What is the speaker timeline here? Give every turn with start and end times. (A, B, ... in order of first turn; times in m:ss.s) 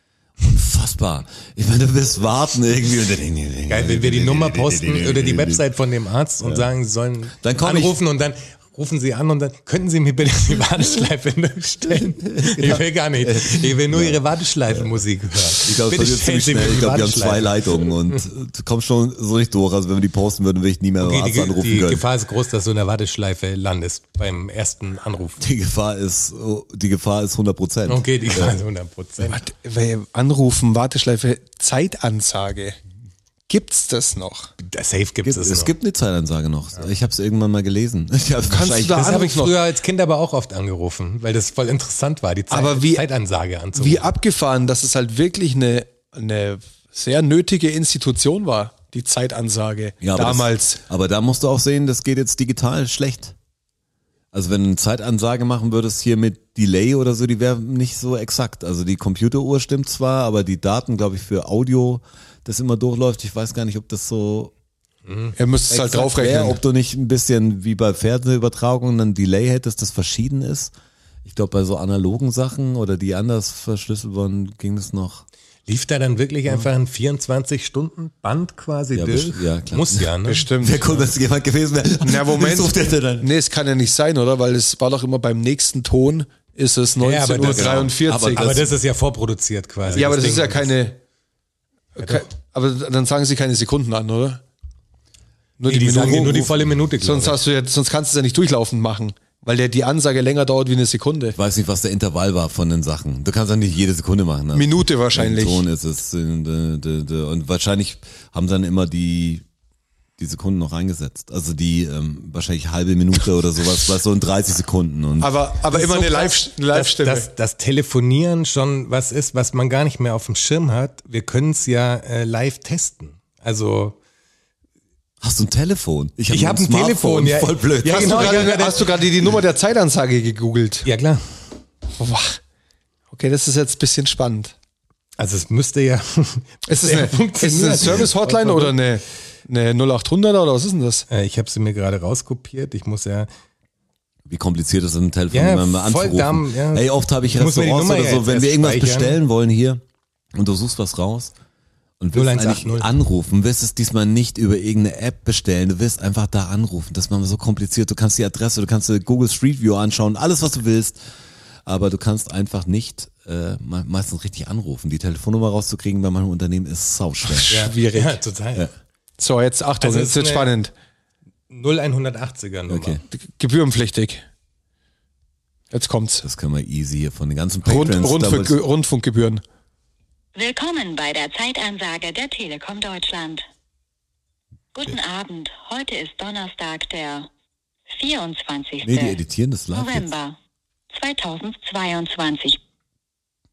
0:00.4-0:05.6 A
0:03.7-0:17.9 B
0:07.4-0:08.0 A
0:11.9-0:15.0 A
0:15.5-0:22.0 A
0:21.0-0:25.4 B
0:25.4-0:28.6 A
0:27.9-0:29.4 B
0:29.2-0:32.8 C
0:33.5-0:34.5 C
0:34.6-0:35.7 B
0:35.2-0:39.2 A
0:38.5-0:39.6 C
0:39.0-0:44.1 B
0:42.5-0:43.0 C
0:43.7-0:50.8 C
0:50.0-0:53.4 A
0:54.3-1:04.5 A
1:05.1-1:05.4 B
1:05.4-1:06.6 C
1:05.7-1:10.7 A
1:11.2-1:15.2 A
1:15.7-1:20.4 B
1:18.9-1:23.3 A
1:20.3-1:20.9 C
1:22.0-1:28.6 C
1:27.0-1:30.7 B
1:27.4-1:28.7 A
1:30.0-1:31.0 C
1:32.0-1:34.4 C
1:35.6-1:41.4 C
1:35.7-1:37.4 B
1:41.3-1:49.4 A
1:44.5-1:45.6 C
1:50.2-1:55.3 A
1:55.2-1:57.3 C
1:55.7-2:04.0 B
2:05.2-2:08.7 A
2:06.3-2:08.9 B
2:07.8-2:10.9 C
2:10.8-2:11.2 B
2:12.0-2:12.4 C
2:13.1-2:14.5 C
2:15.2-2:18.8 B
2:16.7-2:21.1 C
2:21.1-2:23.3 B
2:24.3-2:29.8 A
2:25.3-2:29.2 B
2:30.3-2:31.3 A
2:32.0-2:41.0 A
2:32.1-2:32.9 B
2:41.6-2:47.5 A
2:47.3-2:48.2 C
2:47.5-2:48.7 B
2:49.2-2:50.7 C
2:49.8-2:50.5 B
2:51.5-2:53.0 B
2:52.7-2:53.0 A
2:53.1-2:54.2 C
2:55.7-2:56.2 C
2:56.2-2:58.6 A
2:57.6-2:59.4 C
3:00.4-3:03.5 D
3:04.8-3:07.3 D
3:07.9-3:09.2 D
3:08.8-3:10.1 A
3:09.7-3:10.4 D
3:10.9-3:12.6 D